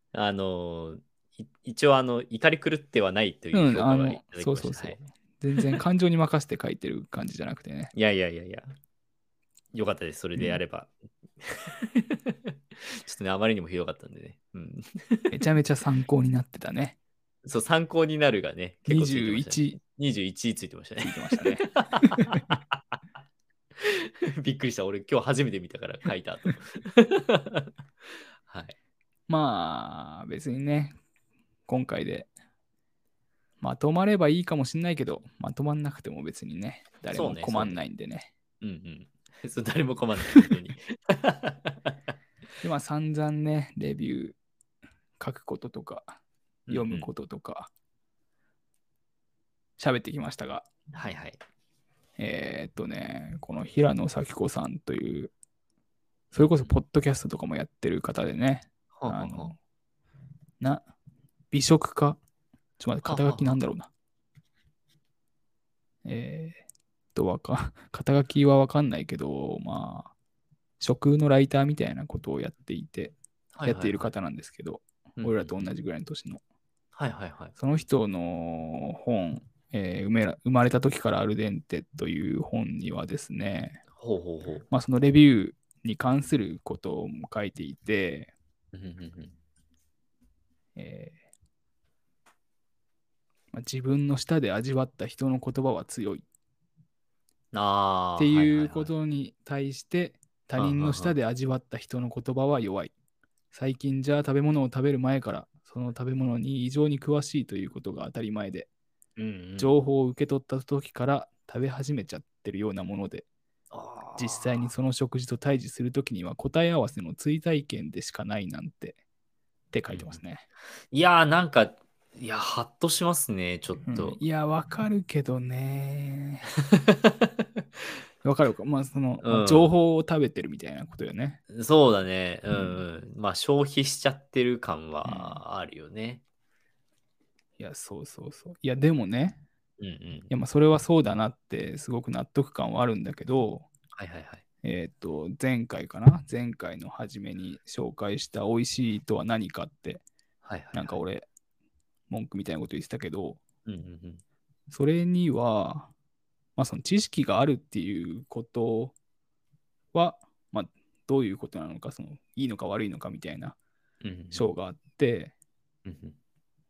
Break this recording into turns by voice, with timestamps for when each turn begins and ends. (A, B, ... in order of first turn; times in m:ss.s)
0:00.1-0:05.0 A
0:03.5-0:07.9 B
0:07.9-0:08.7 A
0:09.7-0:12.3 A
0:13.0-0:15.4 A
0:15.3-0:17.0 B
0:17.4-0:23.0 A
0:18.9-0:19.8 B
0:21.0-0:22.4 B
0:23.8-0:27.7 A
0:28.5-0:28.7 A
0:29.3-0:31.0 B
0:31.7-0:32.3 B
0:33.6-0:38.3 B
0:37.1-0:37.8 A
0:38.6-0:41.9 A
0:42.6-0:44.4 B
0:45.2-0:46.2 B
0:46.7-0:47.1 A
0:46.7-0:47.7 B
0:49.8-0:50.6 B
0:50.9-0:51.4 A
0:52.2-0:55.3 B
0:56.3-0:59.5 B
0:56.4-0:56.7 A
0:58.9-0:59.5 A
1:01.5-1:02.2 B
1:02.8-1:03.9 B
1:03.0-1:03.6 A
1:06.0-1:06.6 B
1:07.1-1:10.1 B
1:10.8-1:16.4 B
1:13.5-1:14.1 A
1:15.2-1:15.6 A
1:16.9-1:17.5 A
1:17.6-1:23.8 B
1:24.0-1:24.6 A
1:24.7-1:28.3 B
1:28.7-1:29.4 A
1:30.7-1:31.2 B
1:33.5-1:36.2 B
1:37.5-1:38.9 A
1:38.2-1:42.9 B
1:40.6-1:41.2 A
1:43.5-1:48.7 B
1:49.2-1:49.7 A
1:49.6-1:53.2 B
1:53.7-1:54.7 A
1:54.1-1:59.0 B
1:59.7-2:00.4 B
1:59.9-2:00.2 A
2:00.9-2:04.2 A
2:03.8-2:06.4 B
2:06.7-2:07.6 A
2:08.2-2:11.4 B
2:09.2-2:09.7 A
2:11.5-2:16.2 A
2:12.5-2:12.8 B
2:15.0-2:15.4 B
2:17.6-2:19.4 B
2:19.8-2:20.3 A
2:20.3-2:23.7 B
2:23.9-2:24.4 A
2:24.6-2:30.0 B
2:30.4-2:31.0 A
2:30.7-2:31.2 B
2:32.1-2:33.4 B
2:33.6-2:34.2 A
2:34.7-2:35.9 B
2:36.6-2:38.9 B
2:39.9-2:43.6 B
2:44.0-2:44.5 A
2:44.3-2:45.3 B
2:45.8-2:46.2 A